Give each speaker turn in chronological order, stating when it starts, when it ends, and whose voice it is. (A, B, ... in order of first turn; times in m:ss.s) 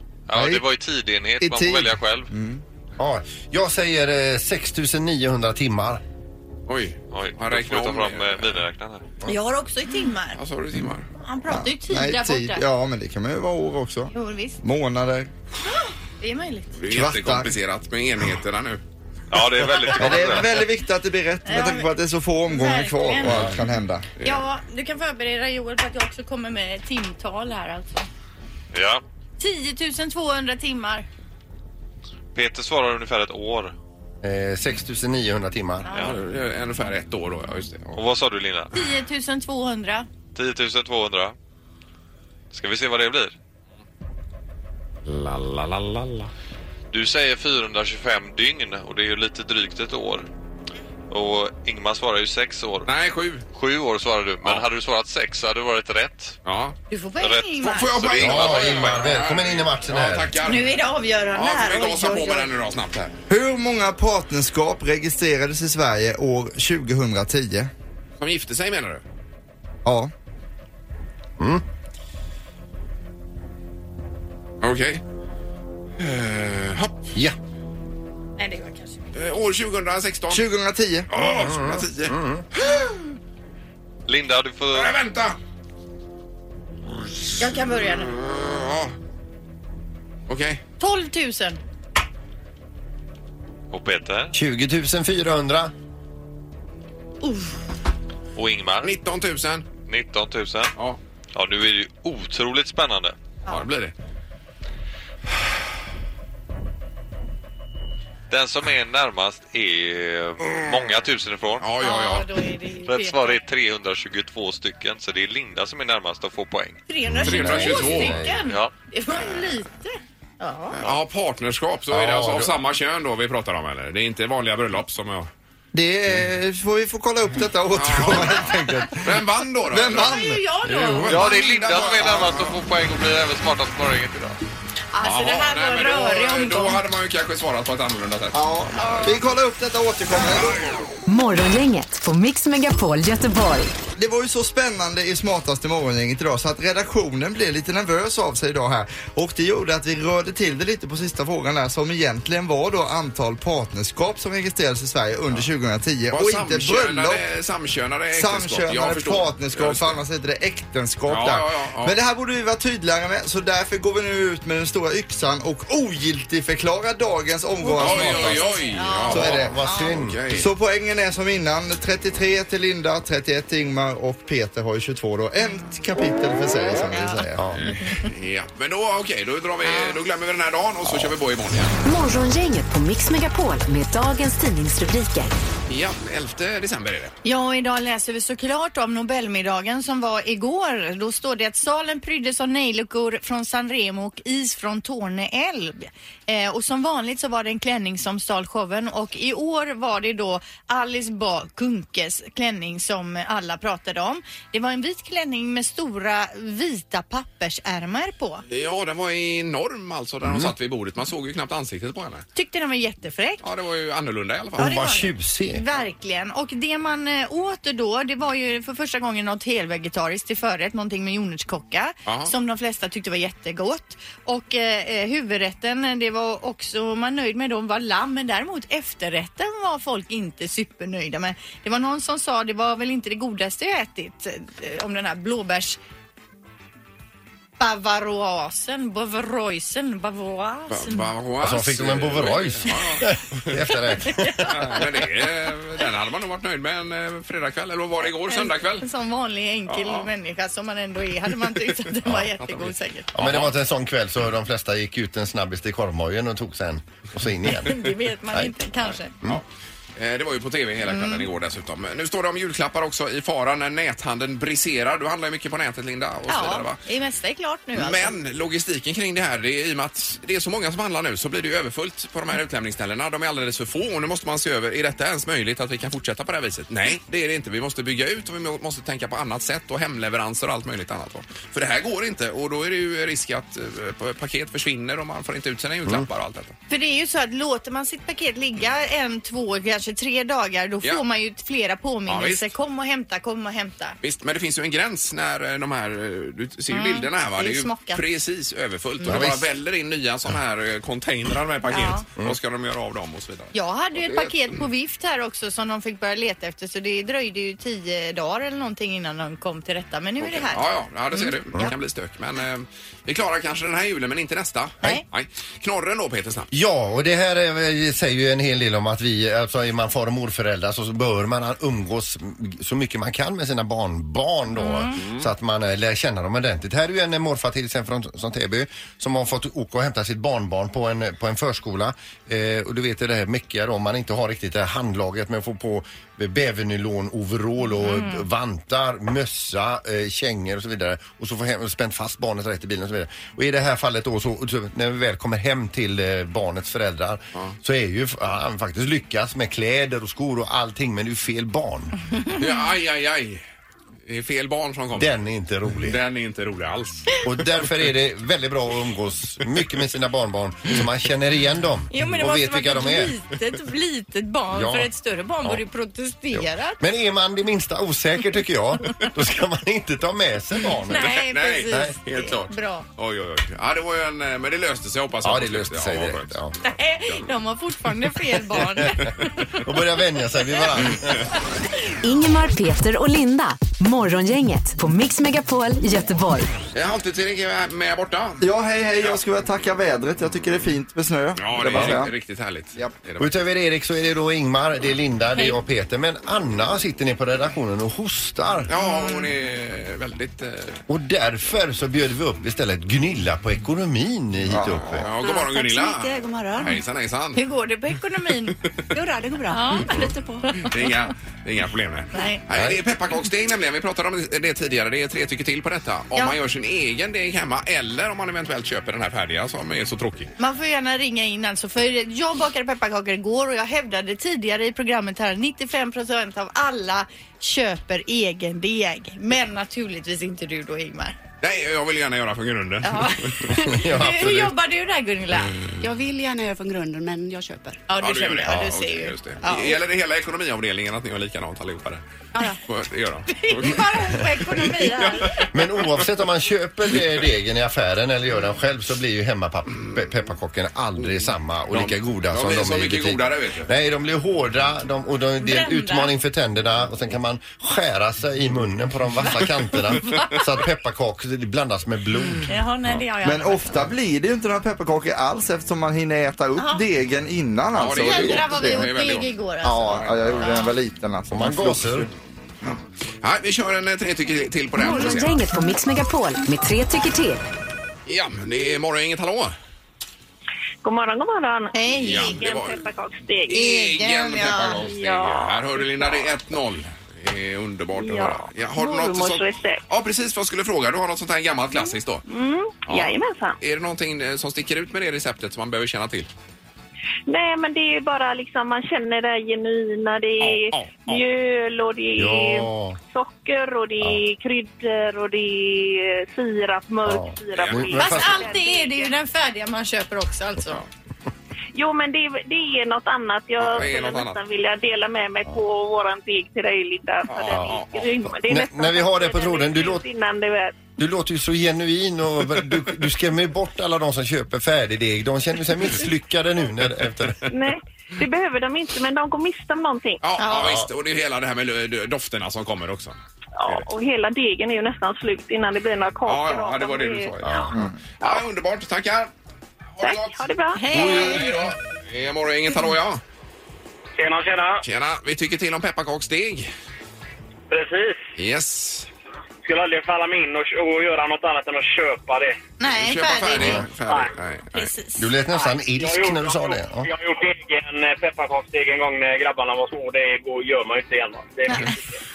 0:00.3-0:02.3 A
0:00.3-0:00.7 B
0:01.4-0:02.6 B
0:03.0-0:06.0 C
0:06.7-0:08.6 D
0:07.1-0:09.1 A
0:09.2-0:10.4 E
0:10.4-0:11.1 D
0:11.2-0:12.6 E
0:11.5-0:15.3 B
0:14.1-0:14.6 E
0:15.7-0:16.7 E
0:16.8-0:18.8 D
0:16.9-0:17.5 B
0:19.3-0:20.7 A
0:19.8-0:24.1 B
0:21.4-0:21.9 E
0:22.5-0:23.5 E
0:24.2-0:28.1 E
0:28.7-0:29.0 A
0:29.4-0:31.0 E
0:32.3-0:33.7 A
0:34.2-0:35.9 C
0:35.8-0:36.1 E
0:36.0-0:38.0 D
0:37.9-0:38.7 A
0:38.7-0:40.1 E
0:40.3-0:41.3 A
0:42.5-0:43.3 A
0:45.0-0:46.3 D
0:46.9-0:50.2 A
0:51.1-0:52.9 A
0:52.9-0:53.4 D
0:53.5-0:56.4 A
0:56.4-0:56.8 D
0:56.9-0:58.2 E
0:57.2-0:58.9 A
0:57.6-1:00.8 D
0:58.2-1:00.4 C
1:00.4-1:02.5 E
1:01.3-1:03.1 D
1:03.3-1:07.7 B
1:08.2-1:09.0 D
1:09.8-1:10.1 B
1:11.4-1:11.6 C
1:14.6-1:15.0 D
1:16.0-1:17.1 D
1:18.4-1:19.0 E
1:19.1-1:20.4 D
1:20.3-1:21.1 B
1:21.1-1:22.2 D
1:21.3-1:22.4 C
1:24.1-1:24.9 A
1:24.7-1:25.4 D
1:27.4-1:28.1 E
1:28.1-1:28.9 D
1:30.3-1:30.6 D
1:30.8-1:31.6 E
1:33.7-1:34.3 A
1:34.3-1:35.7 C
1:37.2-1:37.6 E
1:38.4-1:38.9 A
1:38.8-1:39.7 D
1:39.9-1:40.7 A
1:41.3-1:43.1 A
1:43.5-1:43.9 D
1:48.3-1:51.6 A
1:51.6-1:52.3 D
1:51.8-1:53.4 E
1:52.8-1:56.8 A
1:56.9-2:00.8 E
1:57.1-1:58.4 C
1:57.2-1:58.2 D
1:58.5-1:58.7 A
2:00.7-2:05.3 D
2:01.9-2:02.5 C
2:05.7-2:10.4 B
2:07.7-2:10.2 D
2:09.9-2:11.3 E
2:10.7-2:11.1 C
2:10.8-2:12.6 D
2:11.0-2:14.4 A
2:11.9-2:12.3 B
2:14.9-2:16.8 E
2:15.0-2:18.4 D
2:18.3-2:20.6 B
2:18.8-2:19.2 E
2:21.1-2:23.7 F
2:24.0-2:37.2 B
2:36.1-2:40.0 D
2:38.1-2:49.5 B
2:41.1-2:42.0 D
2:47.6-2:50.0 E
2:47.8-2:50.5 D
2:49.1-2:50.2 C
2:50.3-2:57.5 B
2:56.9-2:57.2 E
2:57.4-2:57.6 C
2:57.6-3:01.8 D
2:59.6-2:59.9 E
3:01.8-3:05.3 F
3:05.7-3:07.1 D
3:07.2-3:28.4 E
3:28.5-3:32.2 D
3:30.2-3:30.5 C
3:32.3-3:33.4 E
3:33.4-3:34.8 D
3:34.6-3:35.6 C
3:34.6-3:55.8 E
3:42.0-3:42.3 D
3:57.6-4:01.1 E
4:00.7-4:03.6 D
4:01.4-4:04.8 C
4:04.0-4:04.8 E
4:04.5-4:08.9 D
4:08.1-4:13.1 E
4:09.7-4:10.1 D
4:13.1-4:18.6 C
4:13.2-4:13.5 D
4:17.5-4:19.1 E
4:20.0-4:26.8 D
4:20.9-4:21.3 E
4:26.3-4:28.1 E
4:27.7-4:46.5 D
4:46.7-4:54.0 E
4:52.1-4:52.5 D
4:54.0-5:04.6 D
4:56.7-4:58.0 E
4:59.0-4:59.5 C
5:01.7-5:02.0 E
5:03.5-5:11.7 E
5:10.2-5:16.5 D
5:16.5-5:52.0 C
5:24.6-5:25.0 E
5:25.0-5:25.3 D
5:37.8-5:38.2 E
5:52.3-5:53.4 D
5:54.0-5:55.1 D
5:54.9-5:56.0 C
5:55.8-5:57.2 D
5:57.2-6:03.1 C
6:01.9-6:06.8 E
6:04.5-6:04.9 C
6:06.3-6:11.2 C
6:10.9-6:12.8 E
6:10.9-6:16.4 D
6:15.2-6:16.5 C
6:16.6-6:19.5 E
6:18.7-6:19.1 D
6:18.8-6:21.3 C
6:22.0-6:26.5 F
6:26.7-6:28.4 D
6:28.4-6:32.1 B
6:31.4-6:33.3 D
6:31.7-6:32.0 C
6:33.2-6:38.7 C
6:38.7-6:40.8 D
6:38.8-6:39.3 E
6:40.9-6:45.1 C
6:44.5-6:44.9 B
6:44.6-6:47.4 D
6:45.2-6:46.8 G
6:47.3-6:48.6 E
6:48.9-6:50.7 G
6:49.5-6:50.7 E
6:50.6-7:00.3 D
6:52.1-6:52.4 E
6:52.5-6:52.8 C
7:00.4-7:11.2 E
7:11.4-7:13.6 D
7:12.8-7:15.6 E
7:13.5-7:14.5 C
7:15.8-7:17.8 G
7:17.9-7:19.8 E
7:18.0-7:22.0 D
7:18.5-7:18.8 C
7:22.3-7:22.6 E
7:22.6-7:23.9 D
7:23.3-7:25.4 E
7:24.6-7:25.5 D
7:25.5-7:42.5 C
7:31.7-7:33.7 D
7:35.4-7:36.1 E
7:39.2-7:40.5 E
7:42.5-7:43.8 E
7:43.2-7:48.8 B
7:46.6-7:46.8 E
7:47.7-7:49.3 D
7:47.9-7:50.7 E
7:49.6-7:52.1 B
7:49.8-7:50.6 D
7:51.3-7:52.1 C
7:53.2-7:55.4 D
7:54.8-7:57.4 F
7:58.1-7:59.5 D
8:00.8-8:03.7 H
8:01.7-8:02.4 E
8:02.0-8:02.8 D
8:03.5-8:12.2 D
8:03.5-8:04.9 E
8:04.7-8:06.4 H
8:08.0-8:09.8 H
8:12.3-8:13.6 H
8:12.9-8:16.3 D
8:17.3-8:29.2 H
8:20.4-8:21.2 D
8:22.1-8:23.0 C
8:27.0-8:28.4 C
8:27.5-8:28.0 D
8:28.0-8:30.8 E
8:31.7-8:40.8 H
8:33.6-8:34.4 D
8:37.3-8:38.1 D
8:37.5-8:37.8 C
8:38.3-8:40.0 C
8:41.0-8:47.5 C
8:47.5-8:50.2 H
8:50.2-8:53.2 D
8:50.4-8:50.7 E
8:50.6-8:50.9 C
8:53.6-8:57.6 H
8:56.2-8:57.7 D
8:57.4-8:57.9 C
8:58.2-8:59.3 D
8:58.2-8:58.5 H
8:59.9-9:03.2 D
9:00.0-9:01.3 H
9:00.7-9:01.6 E
9:04.2-9:04.8 I
9:04.8-9:06.7 D
9:07.7-9:08.2 I
9:08.4-9:09.1 D
9:09.6-9:12.6 I
9:12.8-9:13.8 E
9:12.9-9:14.9 D
9:13.6-9:13.8 C
9:14.7-9:15.7 E
9:15.2-9:17.1 C
9:15.8-9:22.0 I